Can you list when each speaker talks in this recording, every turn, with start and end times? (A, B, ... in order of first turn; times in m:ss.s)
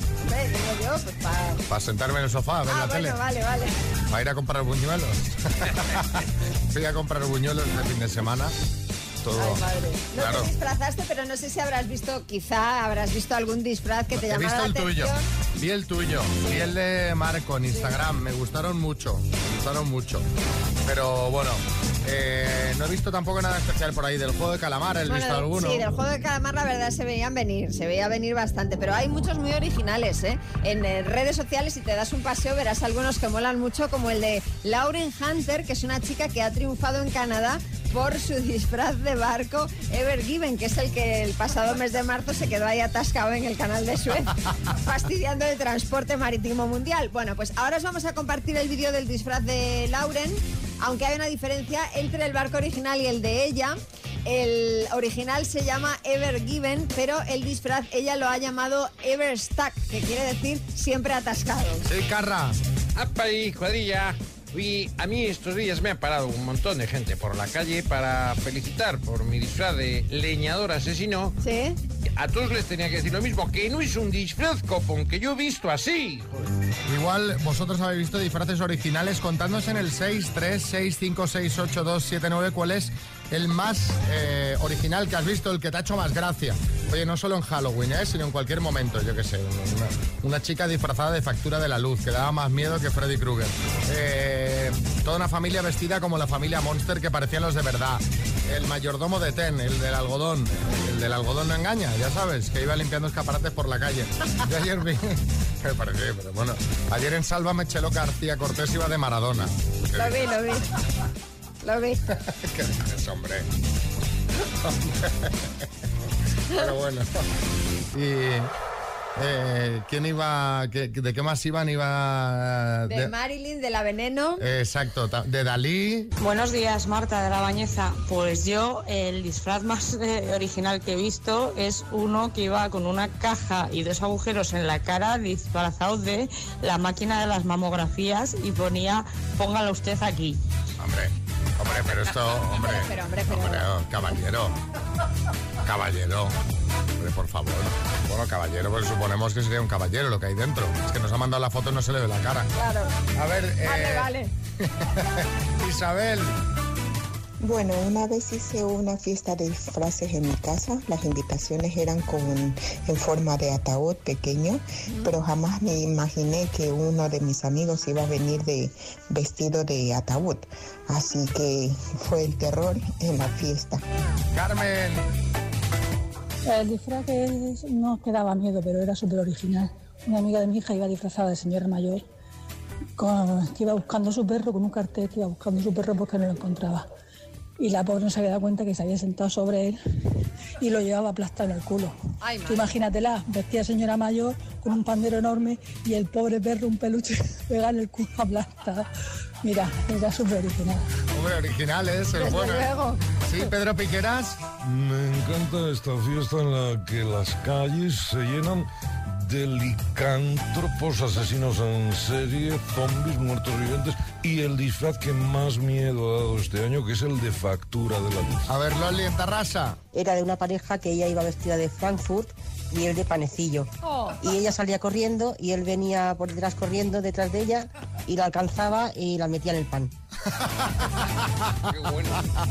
0:00.2-0:01.6 A
0:01.7-0:03.2 B
0:02.7-0:03.7 A
0:04.1-0:08.5 B
0:09.2-0:09.6 B
0:09.4-0:15.2 A
0:10.2-0:10.5 B
0:14.1-0:20.3 B
0:20.8-0:25.9 B
0:25.1-1:01.8 A
1:01.8-1:02.6 B
1:02.9-1:11.4 C
1:11.4-1:11.8 A
1:12.2-1:16.5 C
1:16.9-1:50.3 B
1:49.9-1:50.7 A
1:51.6-1:52.0 A
1:52.1-1:53.5 B
1:54.6-1:55.6 B
1:56.5-1:57.2 B
1:57.9-1:58.5 B
1:59.2-2:03.1 B
2:02.9-2:04.4 A
2:04.4-2:06.1 B
2:06.2-2:20.4 D
2:20.8-2:24.6 B
2:22.5-2:23.7 A
2:25.6-2:26.4 B
2:27.0-2:32.5 B
2:32.5-2:32.9 A
2:33.1-2:36.3 B
2:33.6-2:34.3 A
2:37.4-2:53.8 E
2:54.3-2:55.1 B
2:56.4-3:02.0 F
3:03.0-3:06.8 F
3:07.6-3:09.8 F
3:10.6-3:11.9 F
3:12.2-3:12.7 A
3:12.4-3:18.9 F
3:19.4-3:20.8 F
3:21.1-3:22.7 B
3:22.2-3:23.0 A
3:23.2-3:24.4 B
3:24.6-3:38.5 G
3:38.5-3:39.8 B
3:39.9-3:49.9 H
3:50.3-3:51.5 B
3:51.7-3:52.2 C